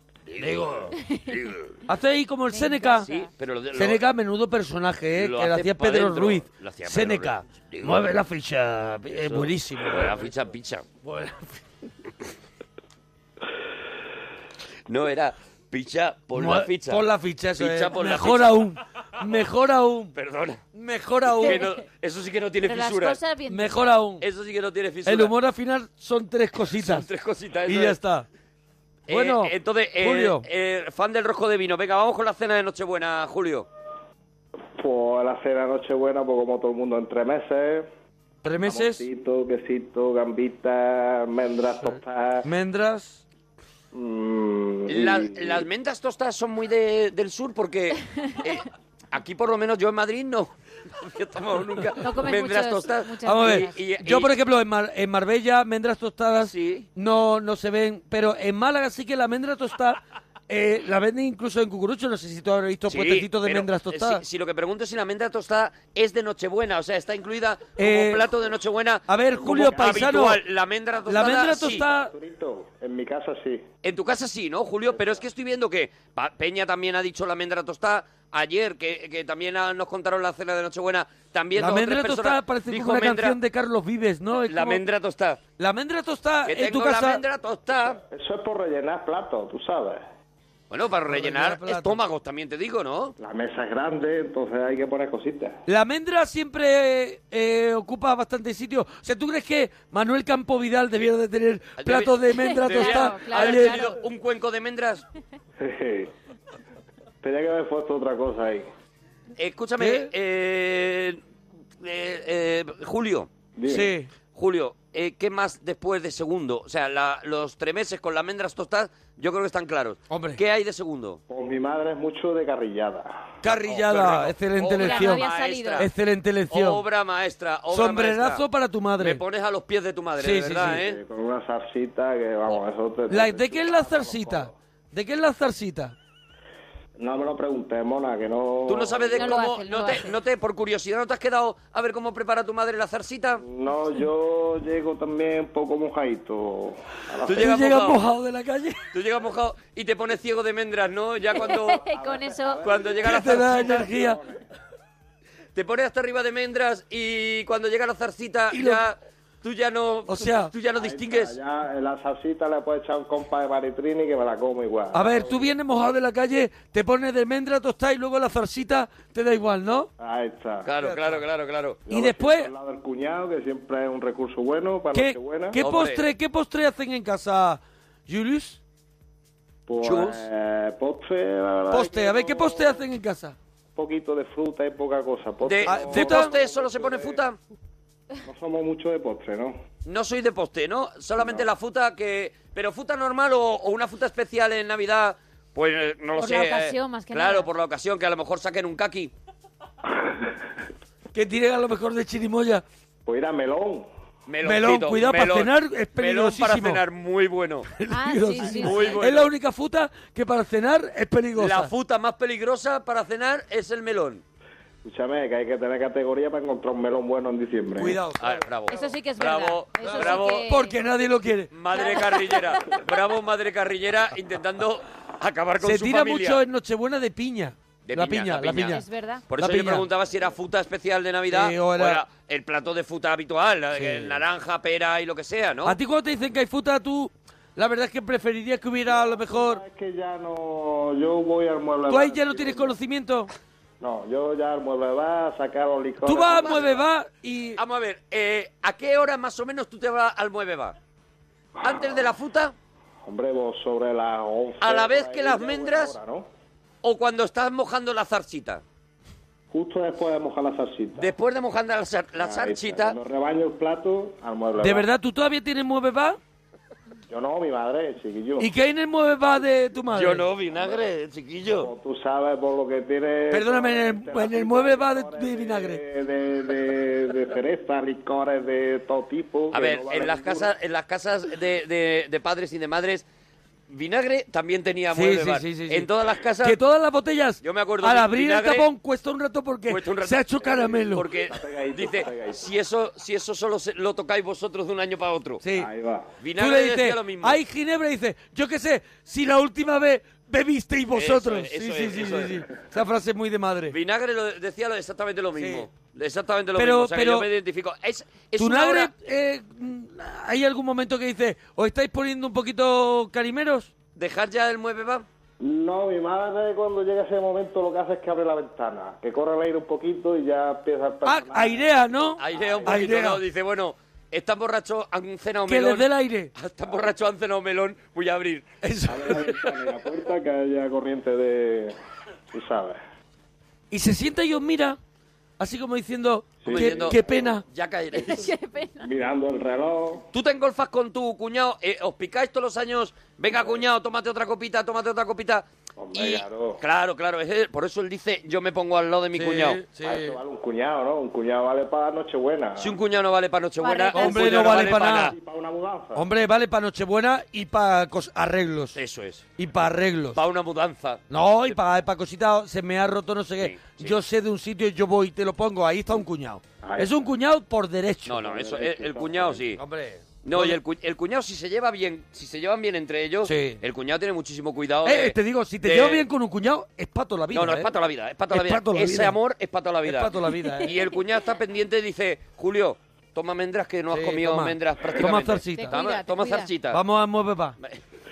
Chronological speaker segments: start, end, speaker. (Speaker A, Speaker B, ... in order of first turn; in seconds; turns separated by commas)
Speaker A: 0.3-1.6, Speaker B: 0.4-0.9, Speaker C: 1.0-1.3, Speaker B: 1.9-3.1, Speaker C: 2.5-3.3, Speaker A: 3.0-4.0, Speaker B: 3.7-10.2, Speaker A: 5.2-8.1, Speaker A: 9.2-10.8, Speaker B: 11.0-11.6, Speaker A: 14.9-17.0, Speaker B: 16.3-20.1, Speaker A: 17.6-18.7, Speaker A: 20.1-20.6, Speaker B: 20.7-21.7, Speaker A: 21.4-23.2, Speaker C: 21.4-21.7, Speaker C: 22.6-23.9, Speaker B: 23.5-24.2, Speaker A: 24.2-25.3, Speaker B: 25.0-27.1, Speaker A: 26.7-28.0, Speaker B: 27.6-28.2, Speaker A: 29.1-33.7, Speaker B: 29.1-30.4, Speaker D: 34.8-37.9, Speaker B: 38.4-39.0, Speaker D: 38.6-42.5, Speaker B: 42.4-43.2, Speaker D: 43.9-45.6, Speaker A: 44.9-50.5, Speaker A: 51.0-54.3, Speaker C: 52.0-53.8, Speaker B: 53.2-64.2, Speaker A: 56.5-56.9, Speaker A: 62.9-71.8, Speaker B: 67.8-68.3, Speaker B: 69.1-70.4, Speaker D: 69.5-69.8, Speaker B: 71.0-72.1, Speaker D: 71.8-73.7, Speaker A: 73.8-83.4, Speaker B: 81.5-84.8, Speaker A: 84.5-85.4, Speaker B: 85.6-87.2, Speaker A: 86.5-88.0, Speaker D: 88.1-90.0, Speaker A: 90.7-93.1, Speaker B: 91.1-92.0, Speaker D: 93.2-95.6, Speaker B: 95.7-104.0, Speaker A: 101.8-105.0, Speaker C: 102.4-104.0, Speaker D: 105.6-106.1, Speaker D: 107.2-108.7, Speaker A: 109.4-111.2, Speaker B: 109.8-110.1, Speaker A: 111.8-113.3, Speaker D: 113.5-114.0, Speaker B: 113.7-114.1, Speaker A: 114.3-121.2, Speaker B: 120.1-120.4, Speaker D: 121.3-123.3, Speaker B: 123.4-125.2, Speaker A: 123.5-125.9, Speaker C: 124.8-125.8, Speaker B: 125.8-126.8, Speaker A: 126.5-128.4, Speaker B: 127.7-129.2, Speaker A: 129.0-131.0, Speaker B: 130.2-130.8, Speaker D: 130.7-134.5, Speaker B: 133.1-135.9, Speaker D: 137.0-139.4, Speaker A: 138.7-143.4, Speaker C: 139.2-140.1, Speaker D: 143.4-147.5, Speaker A: 147.2-148.0, Speaker B: 147.3-148.9, Speaker A: 148.9-151.8, Speaker C: 151.4-152.6, Speaker D: 151.7-154.4, Speaker A: 152.6-153.9, Speaker B: 153.0-154.2, Speaker A: 155.5-161.3, Speaker B: 158.5-158.8, Speaker B: 160.1-160.5, Speaker D: 160.8-165.5, Speaker B: 164.9-169.9, Speaker D: 170.0-170.7, Speaker A: 170.6-171.8, Speaker B: 170.8-171.2, Speaker D: 171.9-175.6, Speaker B: 171.9-172.5, Speaker B: 174.9-178.6, Speaker A: 175.6-176.0, Speaker D: 179.7-182.8, Speaker A: 179.8-180.2, Speaker B: 181.7-183.3, Speaker D: 183.7-187.2, Speaker A: 185.4-187.4, Speaker B: 185.6-186.3, Speaker D: 188.2-189.6, Speaker A: 189.8-199.1, Speaker D: 191.2-191.5, Speaker C: 196.2-197.5, Speaker B: 201.1-202.6, Speaker D: 203.1-203.9, Speaker A: 204.3-207.7, Speaker B: 204.4-206.8, Speaker B: 207.7-211.7, Speaker C: 207.9-209.0, Speaker A: 208.4-209.3, Speaker A: 211.4-214.2, Speaker D: 214.8-218.0, Speaker B: 217.8-218.5, Speaker A: 218.2-220.5, Speaker C: 218.7-220.8, Speaker B: 219.8-221.5, Speaker A: 221.5-226.4, Speaker C: 221.7-222.7, Speaker B: 225.6-229.9, Speaker A: 227.8-235.8, Speaker C: 228.7-229.2, Speaker B: 231.3-232.0, Speaker B: 233.7-234.2, Speaker B: 235.6-239.6, Speaker D: 238.8-242.8, Speaker B: 241.9-243.3, Speaker D: 243.8-246.8, Speaker B: 246.0-247.6, Speaker A: 246.4-246.7, Speaker A: 247.6-250.8, Speaker D: 251.6-252.1, Speaker A: 251.6-252.5, Speaker D: 253.1-256.2, Speaker A: 254.6-255.9, Speaker A: 256.8-258.6, Speaker D: 259.5-261.1, Speaker A: 260.9-262.9, Speaker D: 262.2-264.9, Speaker B: 264.6-266.2, Speaker D: 267.1-268.5, Speaker B: 268.4-270.3, Speaker A: 269.9-271.7, Speaker D: 270.5-270.8, Speaker D: 271.5-280.5, Speaker B: 273.3-275.8, Speaker A: 279.5-283.0, Speaker A: 283.7-286.6, Speaker B: 284.9-285.9, Speaker B: 286.4-291.1, Speaker A: 287.4-288.7, Speaker A: 289.7-295.4, Speaker D: 290.4-292.5, Speaker B: 295.4-295.7, Speaker D: 295.5-296.1, Speaker A: 296.2-297.4, Speaker B: 296.4-303.8, Speaker A: 300.9-302.4, Speaker A: 303.7-308.9, Speaker B: 305.3-305.6, Speaker B: 306.6-307.3, Speaker B: 308.4-313.7, Speaker A: 313.9-315.1, Speaker D: 315.4-322.9, Speaker B: 321.0-323.2, Speaker A: 322.2-328.5, Speaker B: 325.5-326.3, Speaker B: 328.6-329.7, Speaker D: 328.9-331.7, Speaker D: 332.3-332.8, Speaker B: 333.7-334.8, Speaker B: 335.4-337.4, Speaker D: 336.4-337.2, Speaker A: 336.5-338.3, Speaker D: 337.9-338.2, Speaker C: 337.9-338.9, Speaker D: 338.8-340.1, Speaker A: 340.1-349.6, Speaker D: 343.3-343.6, Speaker D: 345.8-346.6, Speaker B: 349.1-350.2, Speaker D: 349.8-352.8, Speaker A: 352.6-355.1, Speaker C: 353.6-354.3, Speaker B: 353.9-355.1, Speaker D: 354.4-356.0, Speaker B: 355.9-358.8, Speaker A: 358.7-359.2, Speaker B: 359.4-360.2, Speaker A: 360.1-361.6, Speaker B: 361.1-368.3, Speaker A: 363.4-364.0, Speaker D: 366.6-367.1, Speaker A: 368.1-369.6, Speaker D: 368.2-369.4, Speaker B: 369.6-370.6, Speaker A: 370.2-376.0, Speaker B: 373.2-373.6, Speaker B: 374.8-377.7, Speaker A: 377.3-386.8, Speaker B: 378.3-379.2, Speaker B: 379.8-380.7, Speaker B: 383.9-385.8, Speaker C: 385.6-386.5, Speaker B: 386.7-387.6